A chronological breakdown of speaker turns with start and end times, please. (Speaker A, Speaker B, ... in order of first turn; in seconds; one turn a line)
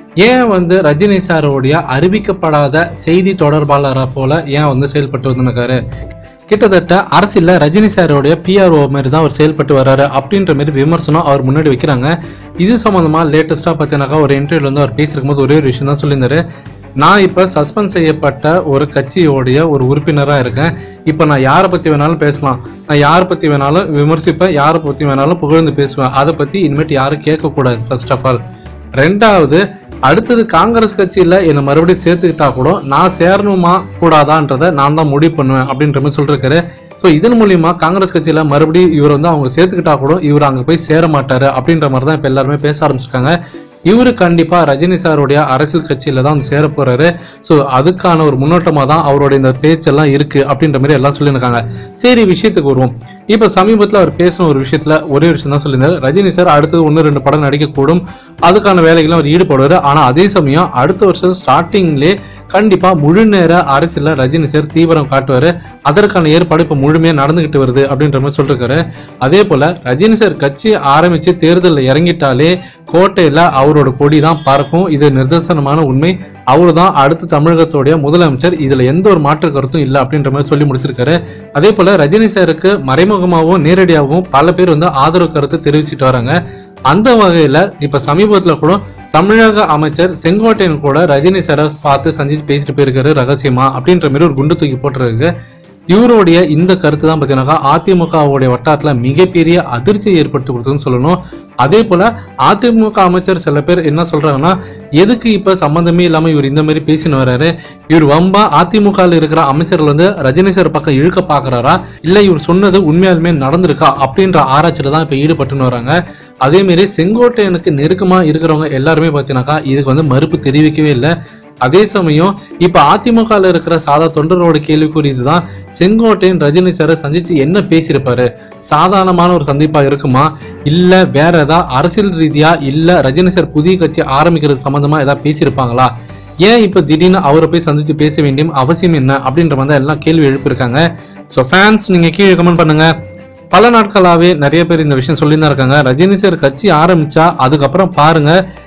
Speaker A: 0.2-5.8
Speaker A: 6.5-16.4
Speaker A: 17.0-28.4
Speaker A: 29.0-43.3
Speaker A: 43.9-86.4
Speaker A: 86.9-95.3
Speaker A: 95.9-135.9
Speaker A: 136.4-142.9
Speaker A: 143.5-148.3